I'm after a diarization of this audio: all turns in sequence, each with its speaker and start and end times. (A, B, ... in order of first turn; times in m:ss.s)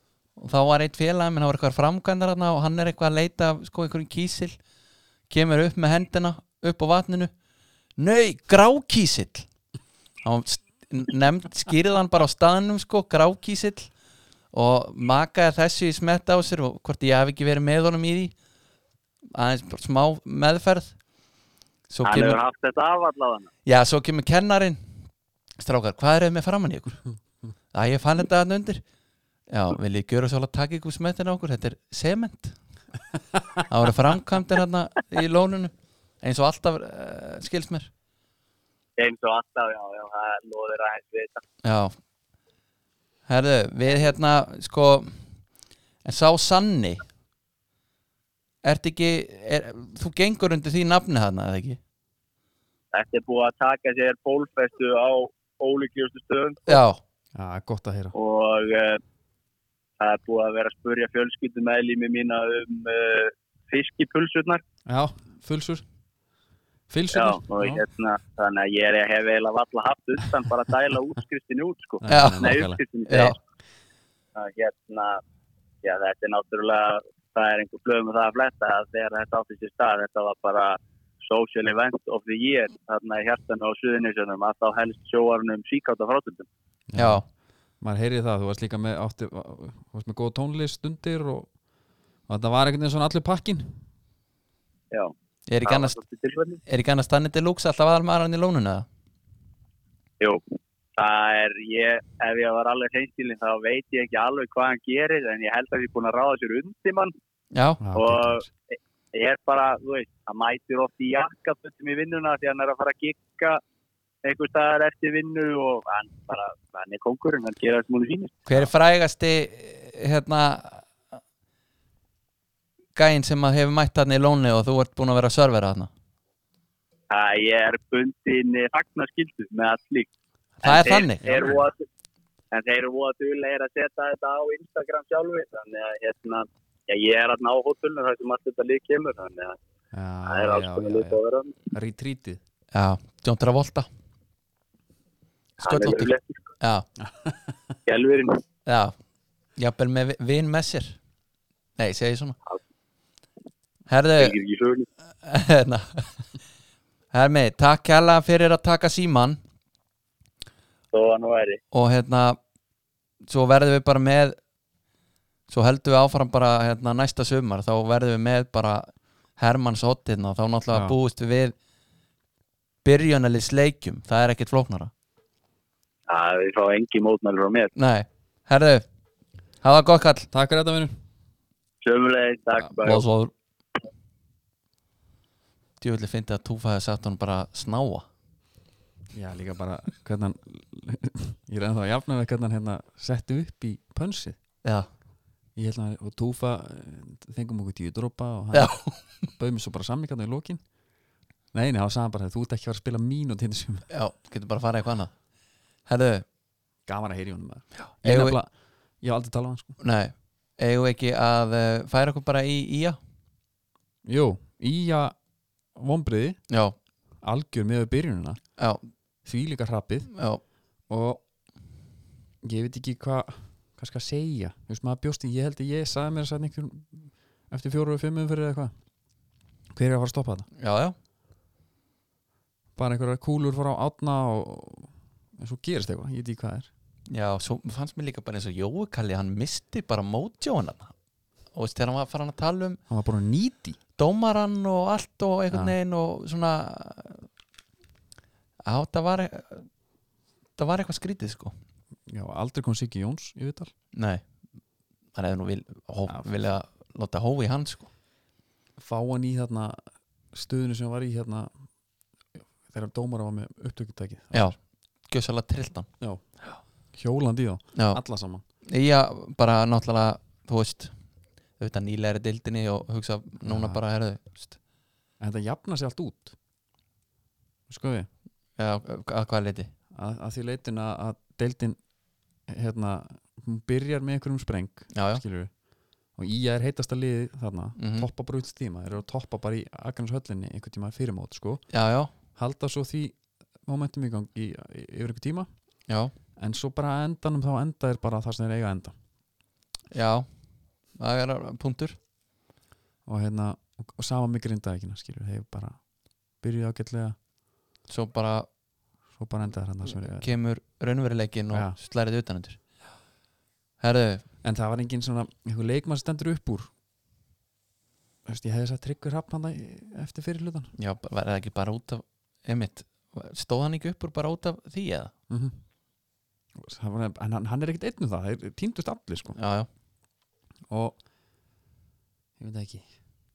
0:00.4-0:04.6 A
0:05.3-0:07.3 A
0:08.0-0:09.5 A
0:10.2-0:13.9 A
0:14.5-0:18.3 A
0:19.3-0:20.9 A
0:21.9-0:22.4 A
0:22.0-0:23.5 B
0:23.6-0:24.9 A
0:25.6-0:27.0 A
0:27.7-0:28.8 A
0:29.5-0:32.6 A
0:33.6-0:37.9 A
0:39.0-0:41.4 B
0:41.6-0:41.9 A
0:43.3-0:45.3 A
0:46.0-0:47.0 A
0:48.6-0:51.8 A
0:52.9-0:56.8 B
0:56.7-0:57.0 A
0:57.3-0:58.1 C
0:58.1-0:59.0 B
1:00.0-1:04.6 B
1:04.8-1:05.8 C
1:06.9-1:07.8 C
1:07.1-1:13.4 B
1:12.0-1:12.8 C
1:12.1-1:13.4 A
1:14.4-1:15.2 B
1:15.8-1:26.4 B
1:26.9-1:27.2 C
1:27.0-1:27.2 A
1:27.8-1:31.5 C
1:32.3-1:33.8 C
1:35.5-1:36.0 A
1:35.6-1:36.6 B
1:36.6-1:38.8 A
1:41.0-1:47.1 B
1:47.5-1:47.8 A
1:47.8-1:48.5 C
1:47.9-1:48.5 B
1:49.1-1:53.6 B
1:54.2-1:58.7 B
1:58.5-2:01.0 A
2:02.9-2:05.9 A
2:07.1-2:10.1 B
2:10.6-2:11.5 A
2:10.6-2:11.8 B
2:12.5-2:19.6 B
2:19.9-2:21.2 C
2:20.3-2:21.7 B
2:21.7-2:22.4 C
2:22.7-2:23.9 A
2:25.6-2:26.4 B
2:25.6-2:26.9 A
2:27.0-2:27.5 C
2:27.8-2:28.4 B
2:28.6-2:28.9 A
2:29.6-2:31.0 A
2:31.8-2:32.4 A
2:33.9-2:34.4 A
2:34.2-2:34.9 B
2:35.2-2:36.2 A
2:37.1-2:39.4 A
2:40.9-2:41.6 B
2:41.7-2:42.4 A
2:43.2-2:44.4 A
2:45.5-2:51.5 A
2:52.8-2:54.9 A
2:56.1-2:57.7 B
2:57.7-2:58.8 A
2:59.6-3:00.3 A
3:00.3-3:00.9 C
3:01.8-3:03.0 B
3:02.8-3:03.3 A
3:05.8-3:08.1 A
3:09.1-3:14.4 C
3:15.6-3:20.6 C
3:18.5-3:18.9 A
3:21.5-3:23.8 C
3:23.9-3:25.1 A
3:25.8-3:26.2 A
3:26.8-3:29.8 C
3:28.0-3:28.4 A
3:29.8-3:33.0 A
3:34.0-3:35.2 C
3:35.7-3:36.4 C
3:36.5-3:36.8 A
3:37.2-3:38.4 C
3:39.2-3:40.1 C
3:40.1-3:40.4 A
3:40.9-3:41.2 C
3:42.4-3:48.7 C
3:49.7-3:50.5 C
3:50.6-3:50.9 A
3:52.8-3:56.7 C
3:57.1-4:00.9 A
4:01.5-4:02.8 A
4:02.9-4:03.8 C
4:04.0-4:07.3 A
4:08.6-4:09.7 A
4:10.6-4:11.5 A
4:12.1-4:13.7 C
4:13.9-4:14.2 A
4:15.1-4:17.9 A
4:18.8-4:21.7 C
4:22.7-4:24.5 C
4:24.3-4:25.9 A
4:26.0-4:26.2 C
4:26.9-4:28.4 C
4:27.7-4:28.0 A
4:28.6-4:30.9 A
4:31.6-4:34.6 A
4:33.4-4:33.8 C
4:35.2-4:36.4 C
4:37.7-4:38.1 C
4:38.6-4:39.7 A
4:39.9-4:41.8 C
4:42.5-4:45.5 C
4:44.9-4:45.2 A
4:46.1-4:51.7 C
4:47.8-4:48.1 A
4:51.7-4:52.1 A
4:52.3-4:55.5 C
4:55.9-4:56.1 A
4:56.4-4:59.0 C
4:59.9-5:00.3 A
5:01.0-5:02.0 A
5:03.0-5:05.8 C
5:06.4-5:07.2 C
5:07.9-5:08.5 A
5:09.2-5:10.3 C
5:09.8-5:12.6 A
5:13.8-5:14.2 A
5:14.4-5:16.7 C
5:18.2-5:20.7 C
5:20.8-5:25.1 A
5:25.3-5:25.6 C
5:26.6-5:29.4 C
5:29.4-5:29.7 A
5:30.7-5:31.0 C
5:32.4-5:32.9 C